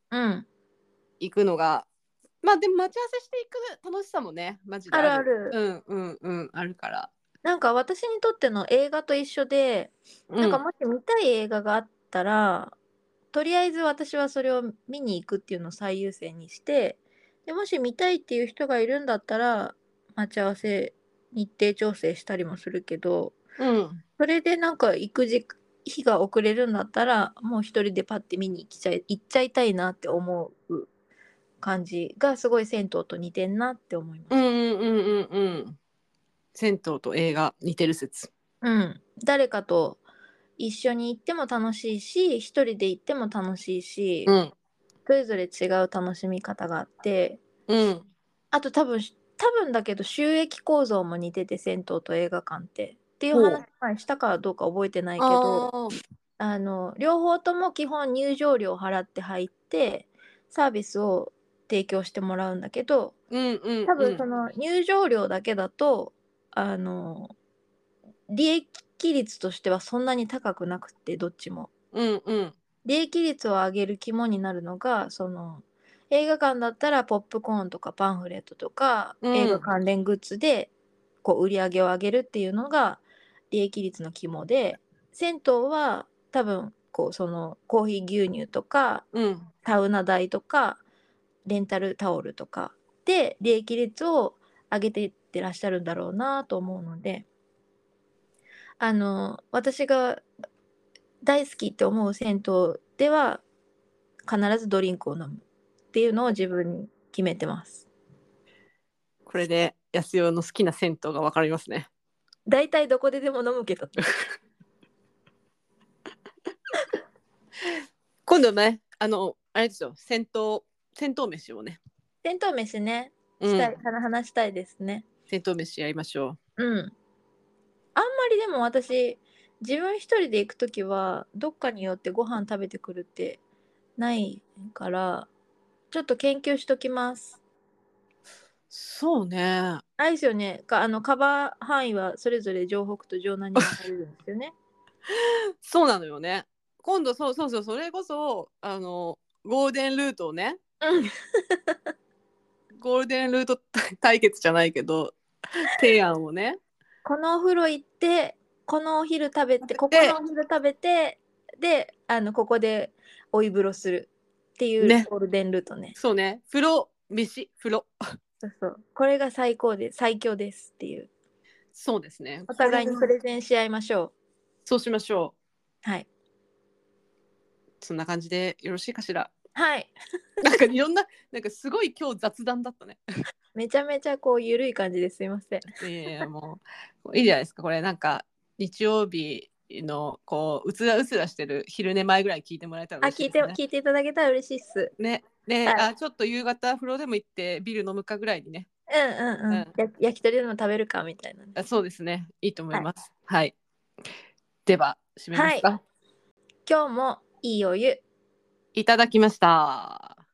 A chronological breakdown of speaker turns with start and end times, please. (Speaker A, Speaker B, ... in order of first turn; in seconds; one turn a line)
Speaker A: 0.1-0.5
Speaker B: 1.2-1.9
Speaker B: 2.4-7.1
Speaker A: 4.9-5.6
Speaker A: 7.4-12.8
Speaker B: 10.3-10.6
Speaker A: 13.3-23.4
Speaker B: 23.6-24.0
Speaker A: 24.2-30.9
Speaker A: 31.6-34.4
Speaker B: 34.3-35.8
Speaker B: 36.5-38.3
Speaker A: 38.6-40.0
Speaker A: 40.6-44.3
Speaker B: 44.3-44.5
Speaker A: 45.1-47.4
Speaker B: 47.7-48.1
Speaker A: 48.5-55.7
Speaker B: 53.3-53.6
Speaker B: 55.2-55.9
Speaker A: 56.4-63.2
Speaker B: 63.3-64.2
Speaker A: 63.9-67.3
Speaker A: 68.3-71.7
Speaker B: 71.9-72.5
Speaker A: 72.8-80.7
Speaker B: 79.2-79.7
Speaker A: 81.2-89.0
Speaker B: 89.1-89.5
Speaker A: 89.6-90.8
Speaker A: 91.5-97.3
Speaker A: 98.8-100.2
Speaker A: 101.2-103.4
Speaker A: 104.3-107.9
Speaker B: 109.3-111.9
Speaker A: 112.5-114.1
Speaker B: 118.3-121.8
Speaker A: 122.2-125.0
Speaker B: 123.4-123.8
Speaker B: 125.3-126.4
Speaker A: 126.6-126.9
Speaker A: 128.0-133.4
Speaker A: 134.0-135.3
Speaker A: 135.9-137.4
Speaker B: 138.7-139.8
Speaker A: 140.0-144.5
Speaker B: 145.6-150.6
Speaker A: 150.8-151.8
Speaker B: 152.8-156.6
Speaker A: 157.1-165.9
Speaker B: 159.7-160.2
Speaker B: 164.8-165.1
Speaker B: 165.9-167.9
Speaker A: 168.4-171.1
Speaker B: 171.7-173.1
Speaker A: 172.5-174.1
Speaker B: 174.7-175.3
Speaker B: 177.8-179.3
Speaker A: 179.6-180.5
Speaker B: 180.4-183.0
Speaker A: 183.6-185.7
Speaker B: 185.8-193.6
Speaker A: 193.0-194.9
Speaker B: 195.0-198.7
Speaker A: 198.9-201.6
Speaker B: 201.6-203.6
Speaker B: 204.7-205.8
Speaker A: 205.3-205.7
Speaker A: 206.7-208.0
Speaker B: 208.8-210.2